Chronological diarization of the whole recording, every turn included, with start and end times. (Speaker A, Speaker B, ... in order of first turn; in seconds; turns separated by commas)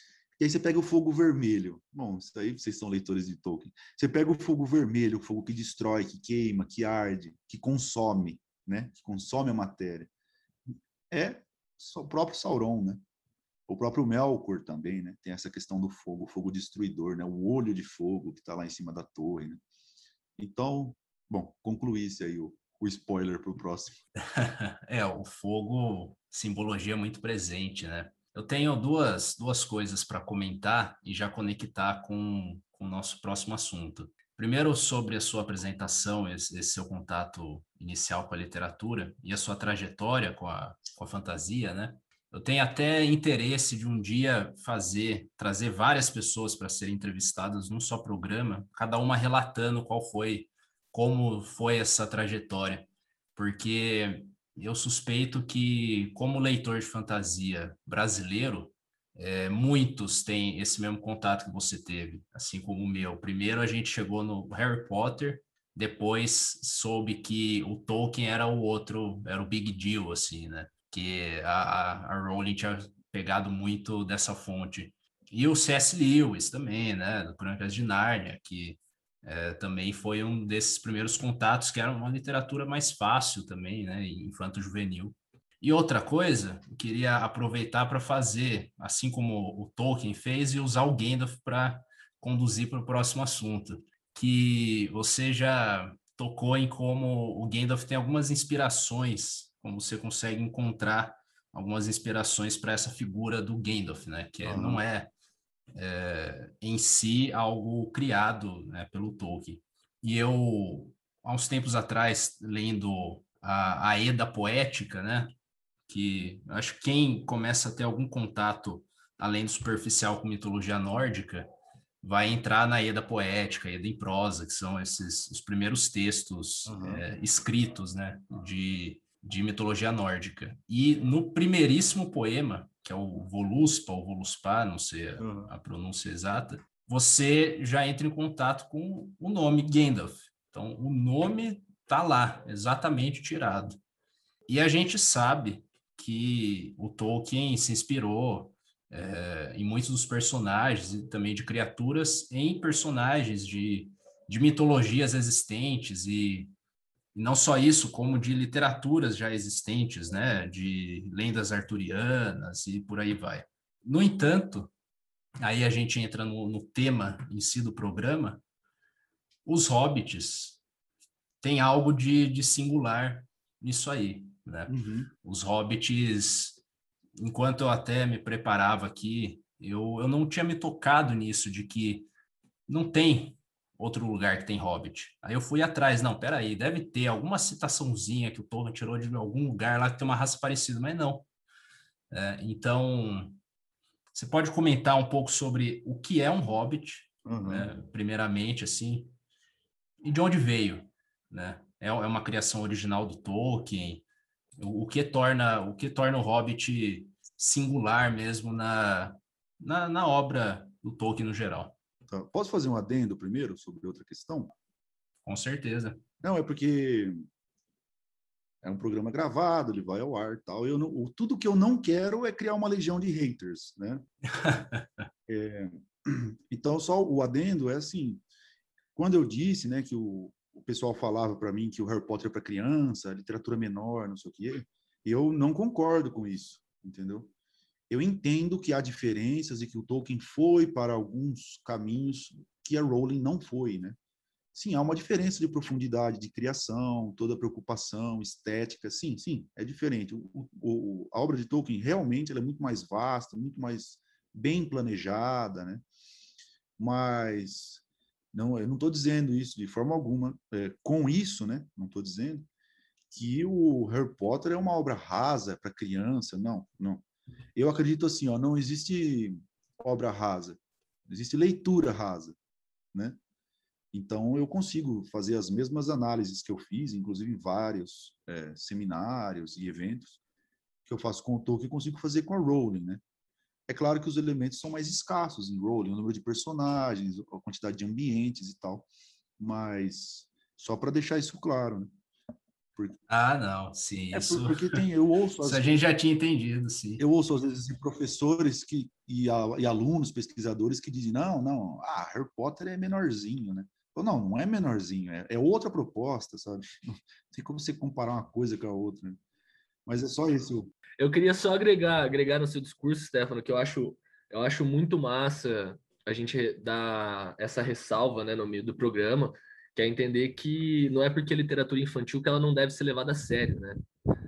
Speaker A: 0.4-10.1, Speaker A: 11.1-13.0, Speaker A: 13.7-19.6, Speaker A: 20.4-24.0, Speaker B: 24.3-105.1, Speaker A: 104.5-104.8, Speaker B: 105.8-115.3, Speaker B: 115.9-121.5, Speaker B: 122.0-143.8, Speaker A: 126.7-127.0, Speaker A: 135.2-135.5, Speaker B: 144.5-156.5, Speaker B: 157.1-164.7, Speaker B: 165.4-168.4, Speaker B: 169.4-170.6, Speaker B: 171.4-176.6, Speaker A: 174.7-175.1, Speaker B: 177.2-182.1, Speaker B: 182.7-191.3, Speaker B: 192.1-193.4, Speaker B: 194.1-199.1, Speaker A: 197.2-197.7, Speaker B: 200.0-204.0, Speaker B: 204.6-211.8, Speaker A: 212.1-214.5, Speaker B: 215.2-216.0, Speaker A: 216.2-217.2, Speaker A: 218.6-224.0, Speaker B: 224.4-224.9, Speaker A: 225.3-228.2, Speaker A: 229.0-237.3, Speaker A: 237.9-244.0, Speaker A: 244.5-255.8, Speaker A: 256.8-262.5, Speaker A: 263.1-267.0, Speaker A: 267.6-272.4, Speaker A: 272.9-273.2, Speaker A: 273.9-280.2, Speaker A: 280.9-283.0, Speaker A: 283.7-288.9, Speaker A: 289.4-291.9, Speaker B: 293.1-294.8, Speaker A: 294.1-295.8, Speaker B: 295.4-297.0, Speaker A: 297.0-309.2, Speaker A: 309.9-310.7, Speaker C: 311.0-323.8